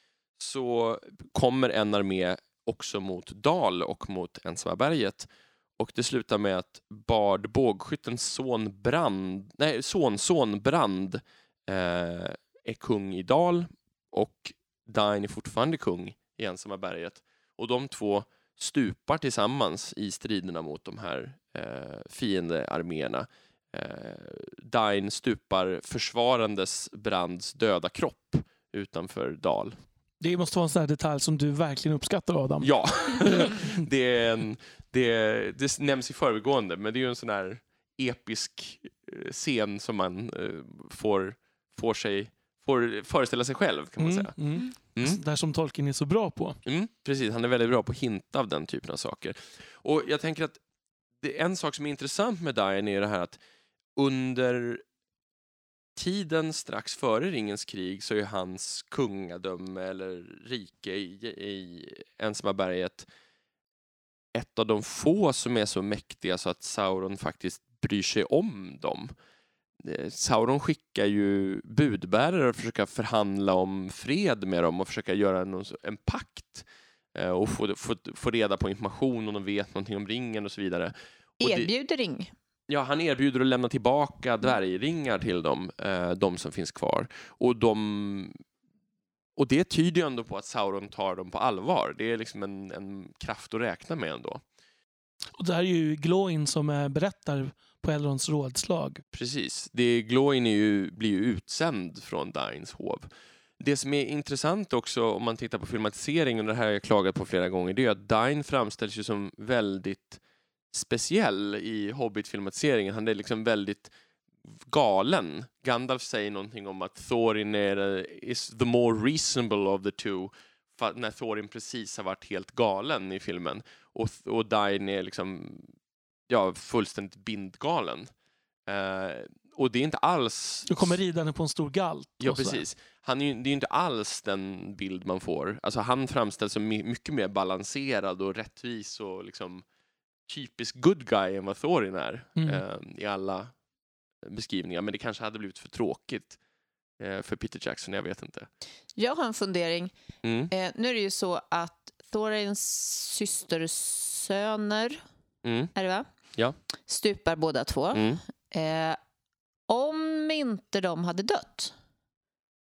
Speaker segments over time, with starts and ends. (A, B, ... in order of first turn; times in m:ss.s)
0:00.4-0:29.8 A
0:30.2-0:33.7 B
0:32.6-0:44.3 A
0:44.0-0:46.6 B
0:46.6-0:50.6 A
0:51.2-0:53.4 A
0:54.0-0:54.8 A
0:56.0-1:03.1 A
1:04.3-1:09.1 A
1:09.8-1:21.7 A
1:21.4-1:22.3 C
1:22.7-1:28.4 A
1:29.4-1:34.4 A
1:35.4-1:39.0 B
1:39.1-1:50.2 A
1:50.7-1:53.9 A
1:54.7-2:05.7 A
2:06.3-2:08.1 A
2:08.7-2:11.0 A
2:10.7-2:12.6 B
2:12.2-2:19.6 A
2:20.3-2:23.5 A
2:22.4-2:22.6 B
2:24.2-2:26.4 A
2:27.0-2:28.5 A
2:29.0-2:29.9 C
2:30.2-2:30.5 A
2:30.5-2:35.0 C
2:35.4-2:35.7 A
2:35.7-2:36.1 C
2:36.9-2:39.0 C
2:37.9-2:38.2 A
2:39.7-2:41.7 C